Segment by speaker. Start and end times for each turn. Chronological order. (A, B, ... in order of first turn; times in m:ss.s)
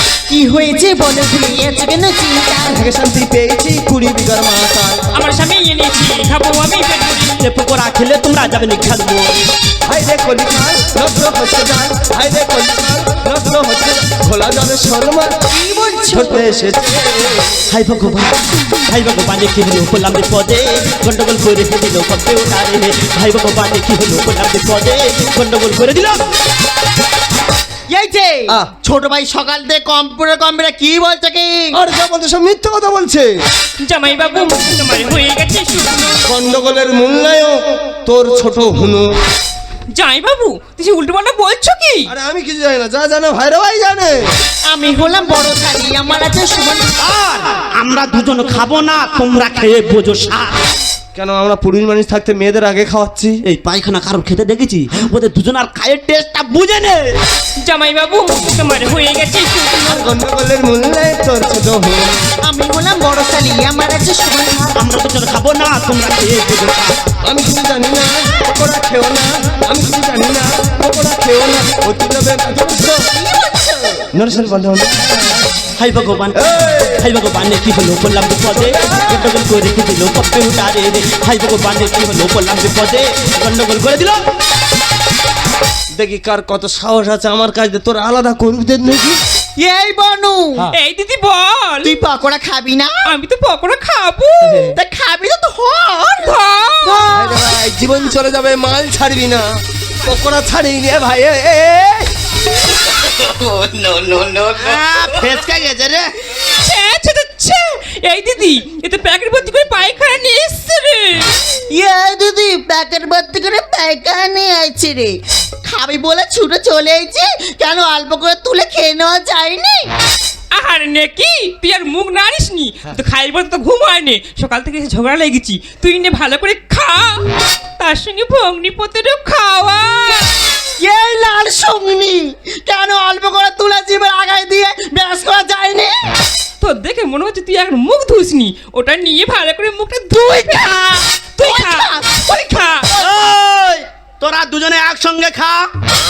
0:00.3-0:02.8 A
0:02.6-0:05.1 B
0:05.1-0:07.4 C
0:07.4-0:09.4 D
0:09.8-0:15.4 B
0:15.5-0:16.5 A
0:16.1-0:17.5 B
0:17.7-0:18.3 D
0:18.9-0:26.2 D
0:27.9-0:31.8 A
0:31.7-0:33.3 B
0:33.8-0:36.2 C
0:36.2-0:39.1 B
0:39.9-0:42.1 C
0:42.1-0:44.2 B
0:44.7-0:47.0 A
0:47.0-0:50.6 D
0:51.1-0:53.4 B
0:53.4-0:57.2 D
0:57.6-1:00.0 C
0:59.8-1:02.2 B
1:02.5-1:04.8 A
1:04.7-1:07.1 D
1:07.2-1:13.0 B
1:13.1-1:14.1 A
1:14.1-1:15.4 B
1:15.8-1:16.4 D
1:16.4-1:17.0 B
1:16.9-1:24.2 D
1:25.9-1:29.2 B
1:29.6-1:30.7 A
1:30.7-1:31.9 C
1:31.8-1:32.9 A
1:33.0-1:34.8 C
1:34.4-1:34.7 B
1:34.8-1:36.4 A
1:36.2-1:37.1 C
1:36.9-1:37.4 A
1:37.0-1:39.4 B
1:40.0-1:42.1 B
1:43.6-1:46.1 D
1:46.6-1:51.3 C
1:51.7-1:59.9 A
2:00.5-2:07.2 C
2:07.8-2:10.3 C
2:10.8-2:15.9 A
2:16.6-2:22.9 C
2:20.3-2:20.8 A
2:21.4-2:23.0 A
2:22.9-2:25.6 D